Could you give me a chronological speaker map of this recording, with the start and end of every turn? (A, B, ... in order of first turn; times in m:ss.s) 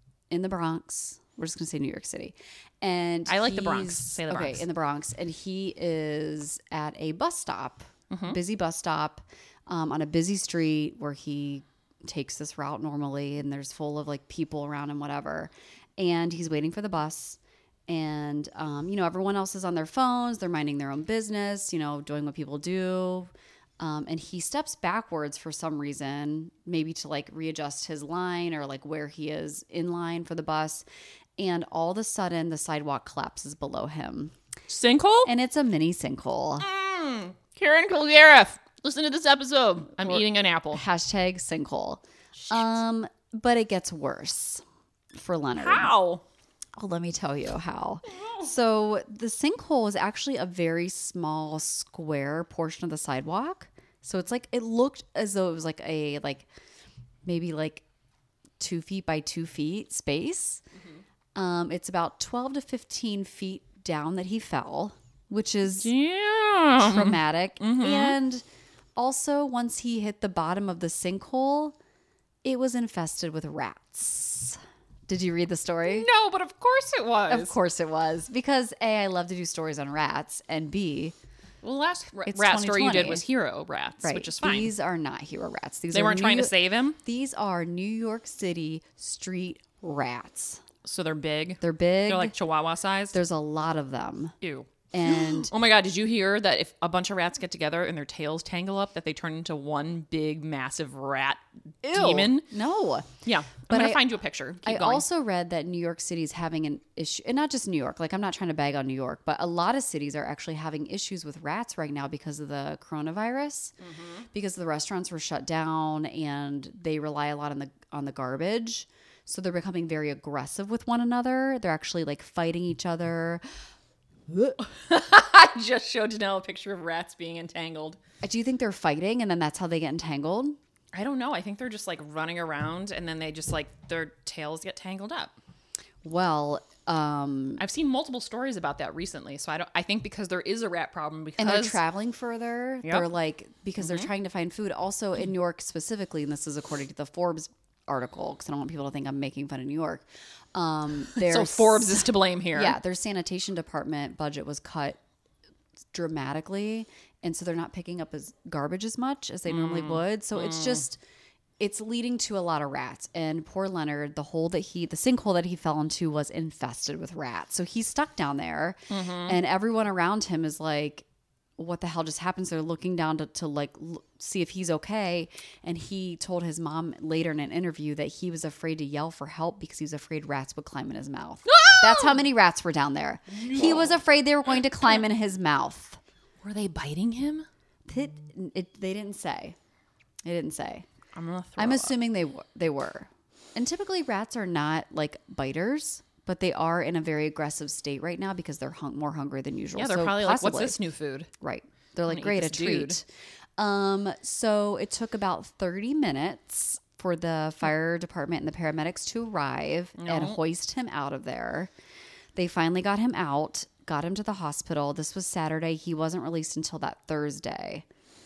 0:00.3-0:30.8 A
0:03.3-0:04.6 B
0:08.1-0:08.4 B
0:31.4-0:34.3 A
0:34.7-0:35.3 B
0:35.2-0:36.6 A
0:36.6-0:40.8 B
0:40.0-0:44.6 A
0:42.4-0:42.8 B
0:45.1-0:45.9 A
0:45.5-0:46.2 B
0:46.8-0:56.5 A
0:57.2-0:57.8 A
0:58.6-1:00.6 A
1:01.3-1:05.9 A
1:05.6-1:08.2 B
1:06.8-1:08.4 A
1:09.0-1:11.8 A
1:12.4-1:16.1 A
1:15.8-1:17.6 B
1:17.3-1:21.1 A
1:21.6-1:24.7 B
1:22.2-1:23.2 A
1:24.0-1:30.6 A
1:25.9-1:27.0 B
1:30.8-1:33.2 B
1:31.6-1:32.3 A
1:33.1-1:34.3 A
1:34.4-1:42.5 B
1:34.9-1:35.5 A
1:41.8-1:43.1 A
1:43.2-1:45.0 B
1:43.7-1:44.1 A
1:44.6-1:53.8 A
1:53.8-1:54.2 B
1:54.3-2:03.4 A
2:04.3-2:04.6 A
2:04.6-2:08.0 B
2:08.2-2:10.6 A
2:10.9-2:15.3 B
2:16.0-2:17.6 A
2:17.6-2:21.8 B
2:21.4-2:35.0 A
2:23.8-2:24.1 B
2:31.2-2:32.8 B
2:35.9-2:41.0 A
2:39.5-2:40.8 B
2:41.6-2:51.0 A
2:48.9-2:49.4 B
2:51.6-3:06.0 A
3:01.4-3:02.2 B
3:03.3-3:03.9 B
3:06.4-3:07.5 B
3:07.9-3:09.6 A
3:10.2-3:10.9 A
3:11.1-3:12.0 B
3:11.6-3:20.8 A
3:19.8-3:21.3 B
3:21.4-3:23.0 A
3:22.1-3:23.0 B
3:23.6-3:31.7 A
3:30.0-3:30.4 B
3:32.3-3:37.8 A